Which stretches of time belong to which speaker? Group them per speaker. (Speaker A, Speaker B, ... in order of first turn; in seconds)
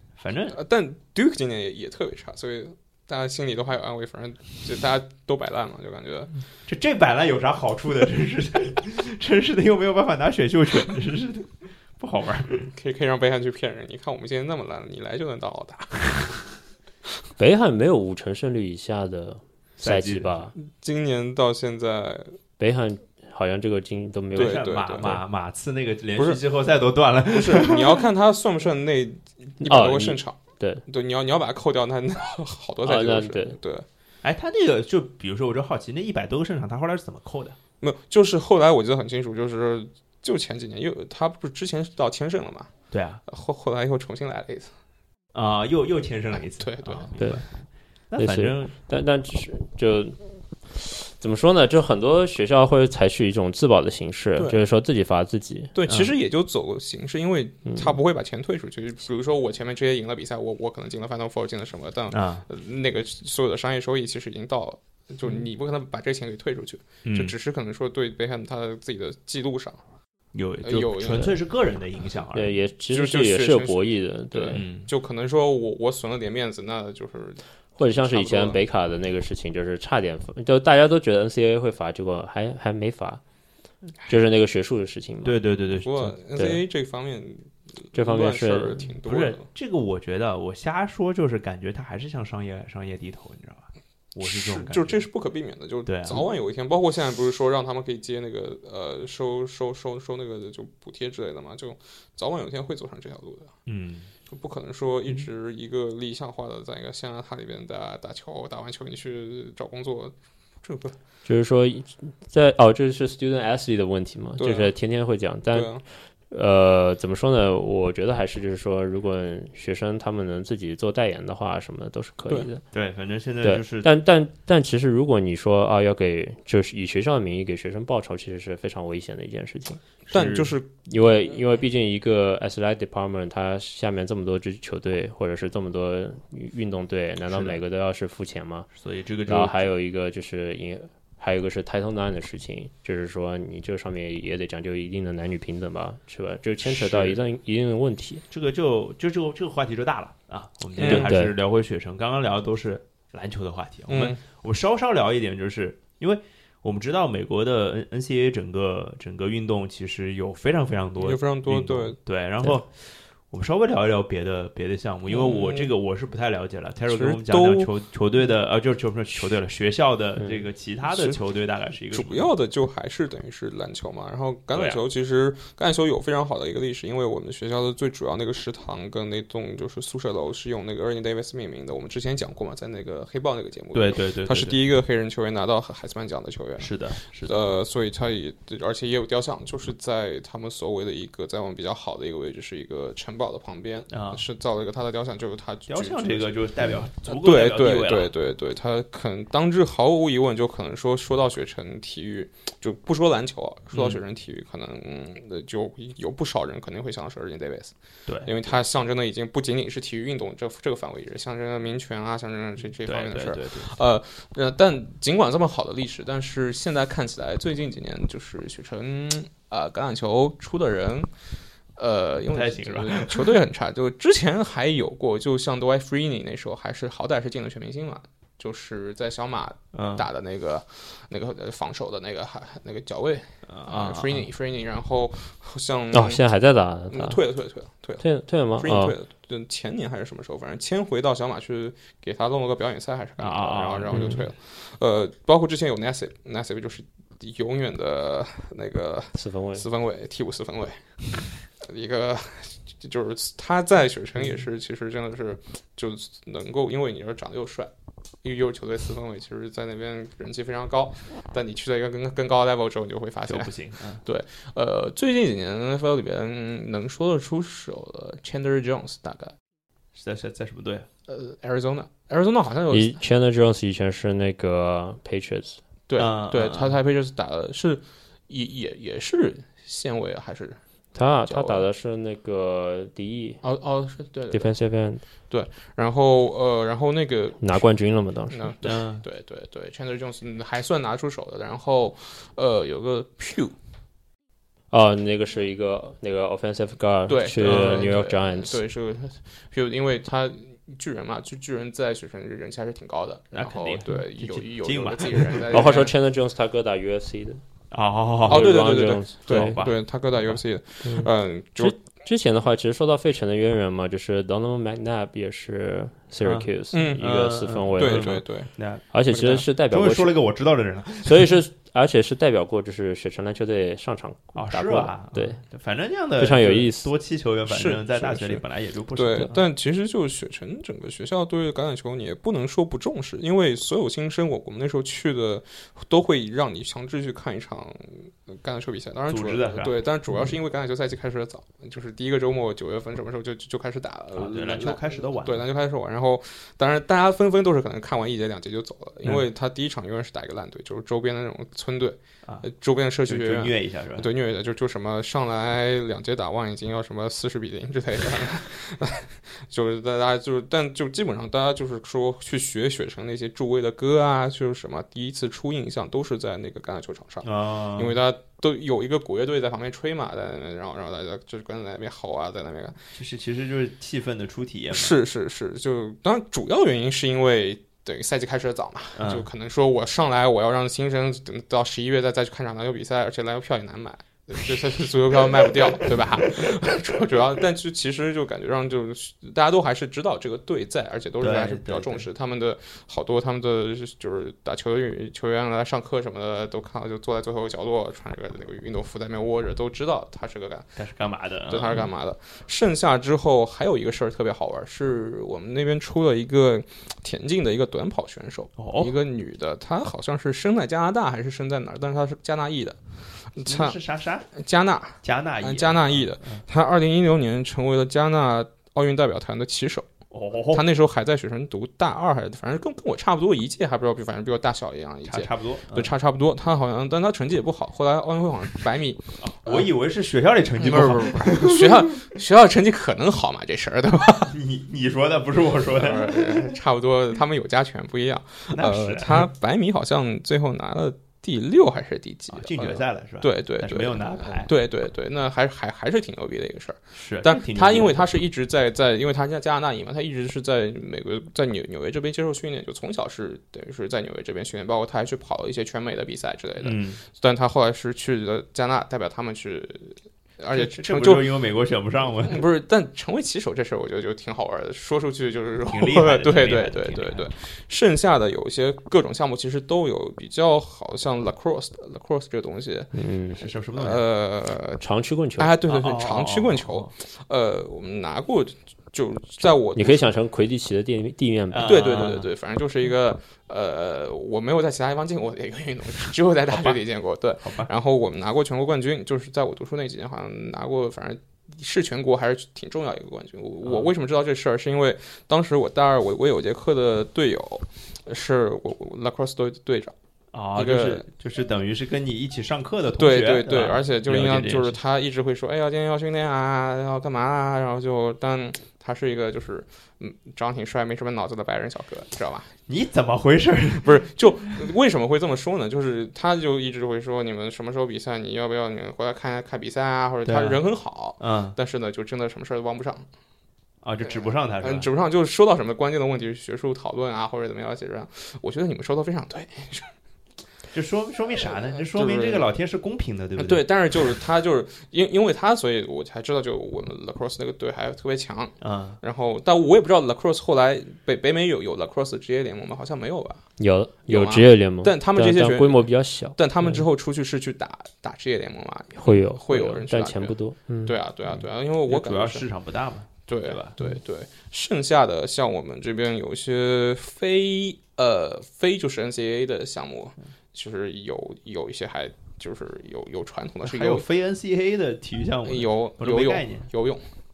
Speaker A: 0.2-0.6, 6.7-12.7, 19.8-20.4, 24.3-28.1, 34.2-37.5, 42.9-43.2, 45.3-48.7, 55.9-56.1, 62.1-62.4, 67.0-67.3, 70.3-72.6, 74.5-74.9, 85.2-86.1, 89.0-95.0, 95.8-96.2, 103.7-104.1, 122.7-123.9, 130.1-130.6, 137.3-137.6, 138.7-139.7, 146.6-147.2, 148.3-172.3, 174.5-174.8, 183.7-184.6, 186.6-187.4, 193.9-194.2, 195.7-198.1, 203.7-204.0, 208.1-208.5, 212.8-213.8, 222.3-223.4, 229.7-230.1, 233.5-234.3, 243.2-244.2, 263.2-264.0, 269.9-270.9, 276.0-276.8, 288.6-289.0, 297.4-297.9, 303.3-305.8, 307.7-310.4, 316.2-318.8, 319.7-321.4, 324.3-329.4, 339.1-339.8, 344.1-345.4, 353.1-354.1, 367.2-368.0, 372.9-375.0, 378.9-379.3, 391.2-392.1, 400.8-401.9, 408.6-409.0, 413.4-414.3, 415.0-416.4, 420.1-420.6, 425.0-425.9, 429.2-432.0, 434.3-436.6, 438.5-439.3, 442.3-444.5, 446.9-448.1, 456.6-457.0, 460.5-462.5, 465.6-467.3, 473.4-474.1, 475.7-476.9, 481.5-482.3, 486.5-486.8, 487.4-487.7, 493.6-493.9, 500.3-504.8, 512.7-514.1, 520.2-520.6, 521.2-521.5, 523.8-524.9, 530.7-533.7, 538.6-539.0, 551.3-553.7, 563.6-566.7
Speaker B: 0.5-6.4, 12.6-16.4, 20.6-22.4, 24.3-25.2, 26.1-26.4, 27.3-33.9, 37.8-42.7, 43.2-44.7, 46.4-47.2, 55.7-69.8, 70.6-71.4, 72.9-78.6, 85.8-89.5, 94.2-103.5, 104.3-111.0, 114.4-114.7, 115.5-115.8, 130.1-130.7, 150.8-151.1, 153.9-154.2, 161.0-162.0, 165.1-165.7, 166.9-167.7, 170.8-171.2, 171.9-196.3, 197.0-221.1, 221.8-236.2, 236.9-238.0, 238.6-257.7, 258.2-269.3, 271.1-273.0, 275.9-280.6, 281.3-281.7, 283.4-284.5, 285.3-287.6, 288.3-293.5, 297.1-305.9, 308.3-311.8, 316.7-317.1, 317.8-318.5, 319.1-319.5, 327.5-372.8, 374.7-400.8, 401.5-413.8, 414.3-419.9, 420.5-429.7, 430.6-434.4, 435.7-461.4, 462.2-472.9, 473.7-474.8, 475.4-480.0, 481.6-499.9, 500.6-501.1, 503.0-512.5, 513.8-523.0, 524.0-529.9, 531.4-532.5, 533.4-543.4, 544.0-552.5, 553.3-564.0, 565.4-567.1
Speaker C: 17.4-20.5, 22.6-25.1, 29.6-30.8, 32.8-33.6, 47.2-47.4, 48.1-55.7, 57.6-58.0, 72.3-74.6, 77.8-83.2, 84.0-85.4, 87.9-88.9, 111.2-122.6, 123.4-129.8, 130.9-138.7, 139.2-148.2, 150.8-151.3, 235.9-237.2, 238.0-238.9, 243.9-244.2, 249.1-249.6, 272.7-275.6, 280.9-283.4, 284.3-285.0, 287.4-288.5, 294.7-298.6, 305.5-307.4, 308.2-309.6, 310.8-318.2, 318.9-320.1, 321.0-325.4, 326.2-326.9, 472.9-473.4, 474.8-475.5, 479.7-481.7, 543.6-546.8, 549.0-551.0